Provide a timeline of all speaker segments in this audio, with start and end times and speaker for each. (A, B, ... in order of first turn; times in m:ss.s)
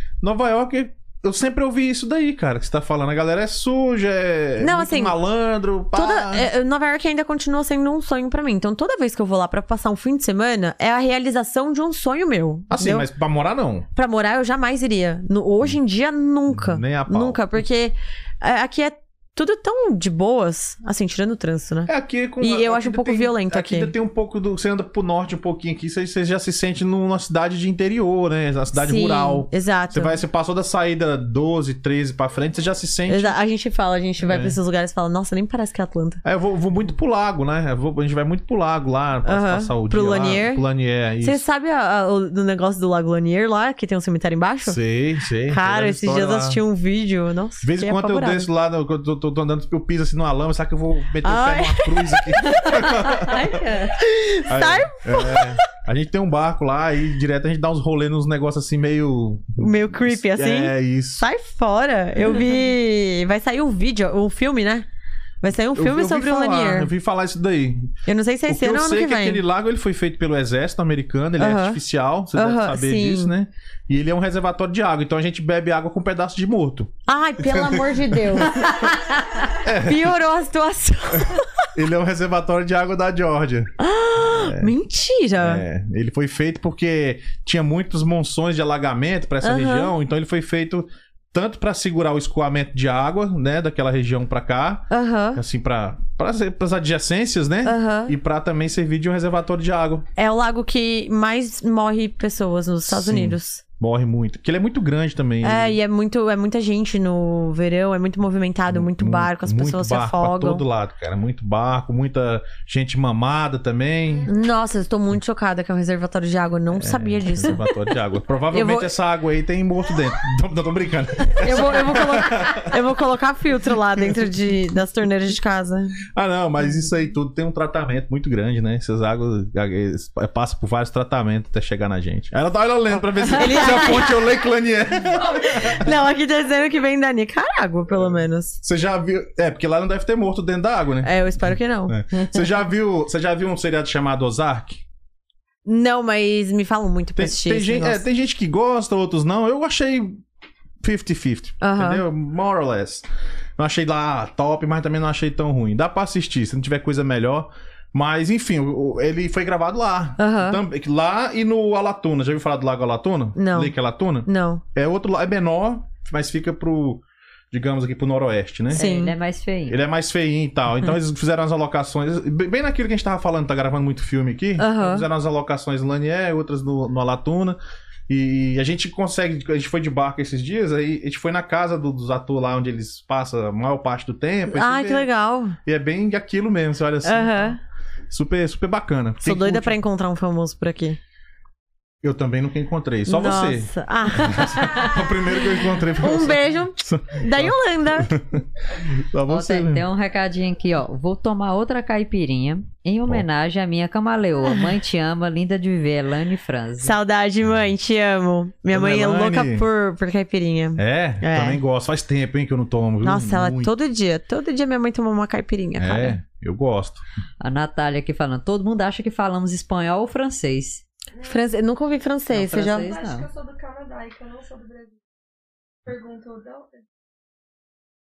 0:00.2-0:06.5 A
0:04.6-0:05.2 B
0:05.9-0:13.1 B
0:12.7-0:13.9 A
0:13.9-0:23.9 B
0:16.5-0:17.6 A
0:21.9-0:33.4 A
0:28.7-0:30.2 B
0:33.1-0:36.2 B
0:34.2-0:34.6 A
0:36.2-0:41.4 A
0:39.2-0:40.6 B
0:41.2-0:44.8 B
0:44.6-0:46.6 A
0:45.5-0:48.5 B
0:47.6-0:53.6 A
0:51.2-0:55.6 B
0:53.2-0:53.9 C
0:54.5-1:01.2 A
0:59.6-1:04.9 B
1:05.4-1:06.9 B
1:05.7-1:08.0 A
1:08.0-1:09.4 B
1:08.5-1:18.9 A
1:11.4-1:11.8 B
1:12.3-1:13.3 B
1:17.1-1:19.1 B
1:19.5-1:20.2 A
1:19.7-1:21.7 B
1:21.2-1:23.7 A
1:23.8-1:25.6 B
1:24.3-1:24.7 A
1:25.4-1:40.1 A
1:29.4-1:29.9 B
1:34.9-1:35.4 B
1:37.6-1:38.2 B
1:40.2-1:43.6 B
1:42.9-1:45.8 A
1:45.4-1:50.6 B
1:48.7-1:54.3 A
1:54.3-1:57.7 B
1:56.7-2:02.8 A
1:58.5-1:58.9 B
2:01.3-2:06.0 B
2:06.2-2:15.9 A
2:13.3-2:14.3 B
2:15.5-2:18.6 B
2:18.0-2:24.8 A
2:21.0-2:22.4 B
2:25.7-2:28.0 B
2:27.2-2:30.2 A
2:30.8-2:48.8 A
2:31.6-2:32.0 B
2:40.2-2:40.6 B
2:43.4-2:43.7 B
2:44.2-2:44.6 B
2:48.7-2:49.1 B
2:48.7-2:49.8 C
2:49.7-3:05.1 A
2:54.6-2:55.1 B
3:04.5-3:05.6 B
3:05.6-3:07.6 A
3:07.0-3:07.6 B
3:08.1-3:09.8 A
3:09.2-3:11.0 B
3:12.0-3:19.9 A
3:13.1-3:15.0 B
3:16.0-3:18.2 B
3:19.3-3:27.0 C
3:26.8-3:31.6 B
3:28.7-3:29.7 A
3:30.8-3:33.7 A
3:33.0-3:36.2 B
3:35.8-3:37.0 A
3:37.4-3:40.8 C
3:41.2-3:42.9 B
3:42.3-3:43.3 C
3:42.8-3:45.0 D
3:45.8-3:46.8 D